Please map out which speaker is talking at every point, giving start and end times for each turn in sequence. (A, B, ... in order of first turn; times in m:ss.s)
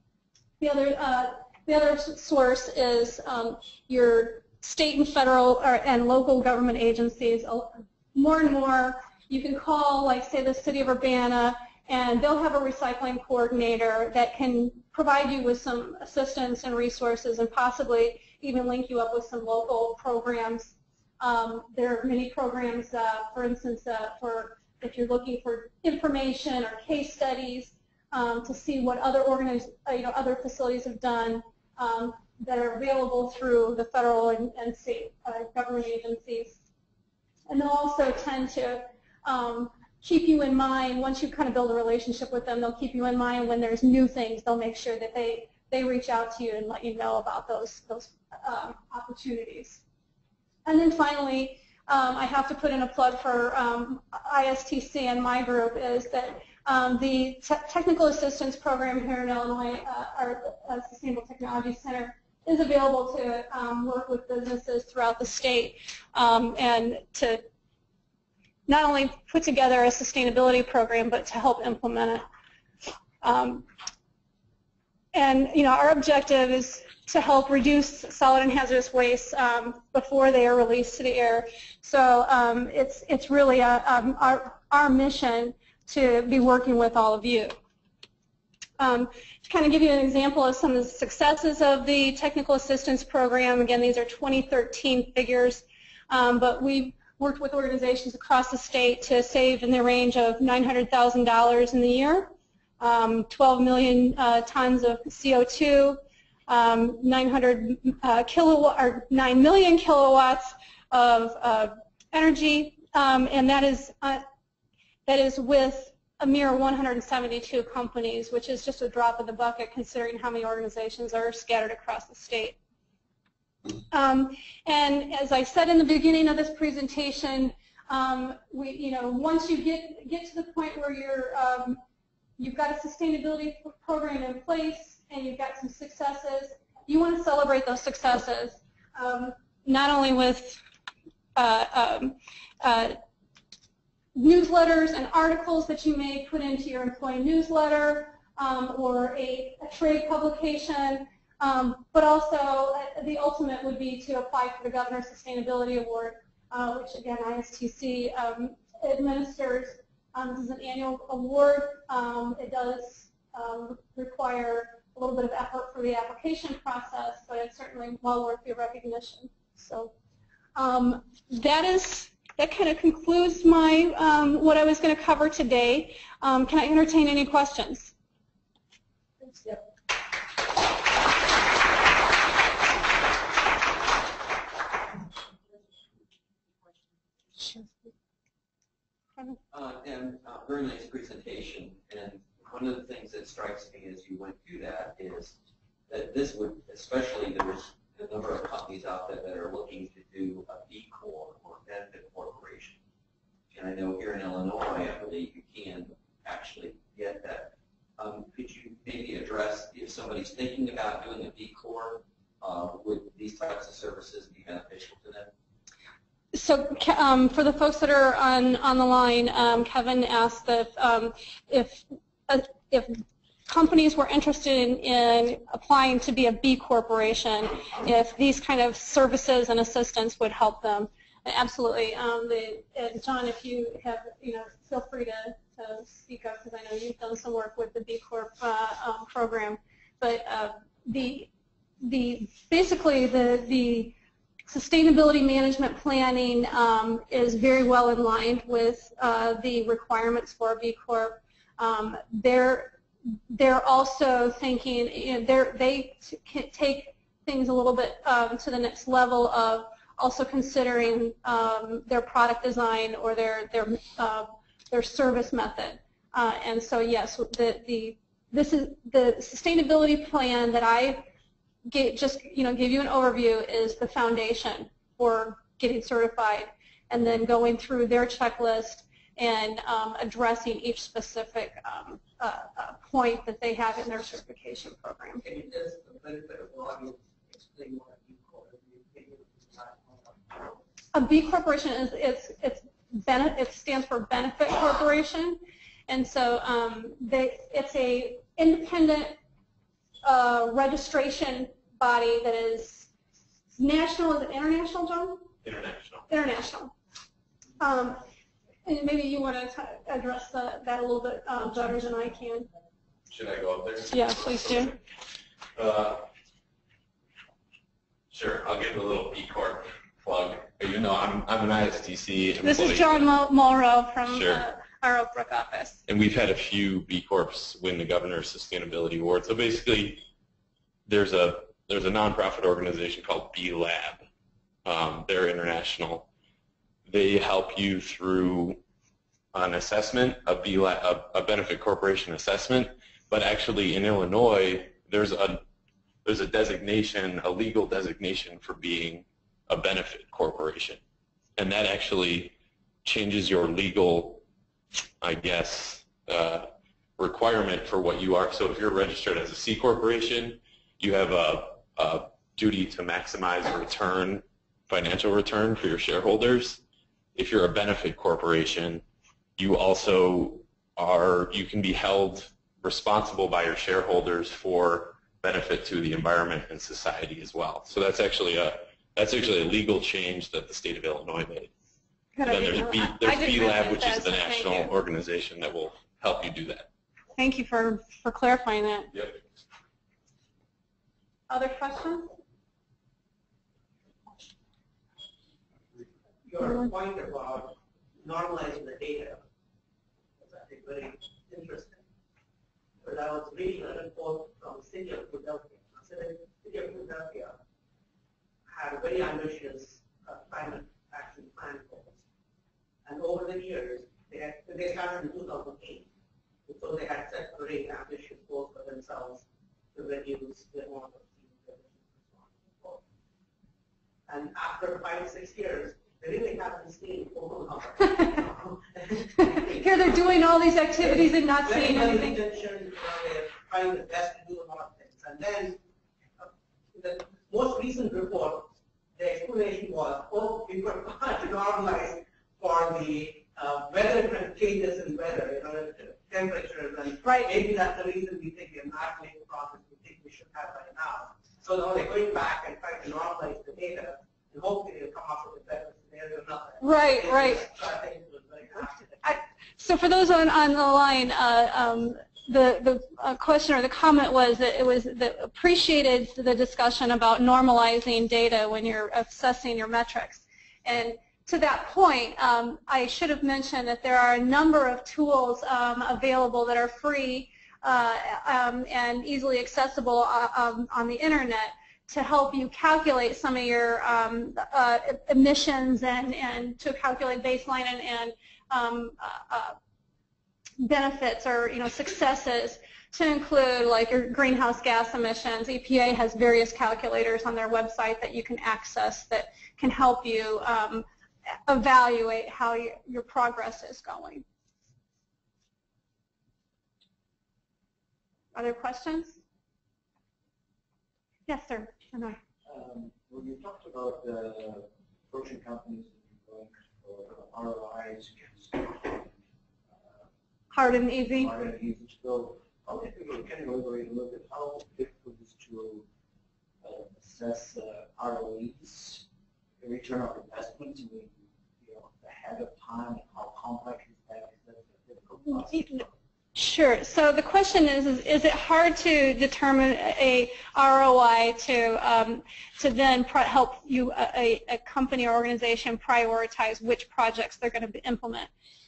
0:00.6-0:36.6 A
0:37.5-0:49.8 A
0:50.6-1:07.4 A
1:08.7-1:12.2 A
1:13.2-1:13.7 A
1:15.1-1:27.6 A
1:28.8-1:54.2 A
1:55.1-2:02.6 A
2:03.9-2:11.8 A
2:12.4-2:20.6 A
2:21.4-2:23.0 A
2:24.2-2:49.9 A
2:50.6-2:57.9 A
3:09.5-3:15.3 B
3:15.9-3:22.8 B
3:23.5-3:35.3 B
3:36.3-4:01.3 A
4:01.8-4:04.0 A
4:04.5-4:12.8 A
4:13.3-4:31.1 A
4:31.6-4:45.2 A
4:45.2-4:50.6 C
4:50.9-4:59.2 A
5:00.0-5:02.9 A
5:03.5-5:05.3 A
5:05.4-5:06.1 D
5:06.1-5:06.7 A
5:07.6-5:08.0 A
5:08.6-5:12.5 A
5:13.1-5:14.8 D
5:13.9-5:14.8 A
5:15.6-5:16.1 D
5:18.1-5:23.1 D
5:22.4-5:25.8 A
5:24.1-5:24.4 D
5:25.9-5:30.0 D
5:30.9-5:34.0 D
5:34.6-5:36.1 D
5:36.9-5:38.6 D
5:39.3-5:45.4 D
5:46.0-5:50.8 D
5:51.4-5:54.2 D
5:55.0-6:06.6 D
6:07.2-6:08.8 D
6:09.4-6:21.5 D
6:22.2-6:24.8 A
6:22.2-6:26.7 D
6:27.2-6:28.9 A
6:28.9-6:29.2 D
6:31.3-6:32.1 A
6:36.2-6:39.2 C
6:40.2-6:41.8 C
6:42.8-6:47.4 C
6:48.5-6:52.0 C
6:52.8-6:55.9 C
6:56.5-7:02.8 C
7:04.1-7:09.6 C
7:09.2-7:12.2 A
7:10.9-7:15.6 C
7:16.2-7:39.2 C
7:27.0-7:27.4 A
7:36.6-7:37.5 A
7:39.0-8:09.6 A
8:10.6-8:20.9 A
8:21.5-8:24.2 A
8:28.3-8:29.2 A
8:31.3-8:32.2 A
8:32.5-8:39.1 E
8:40.5-8:41.3 A
8:41.2-8:45.8 E
8:46.6-8:49.0 E
8:49.6-8:55.8 E
8:56.3-9:08.3 A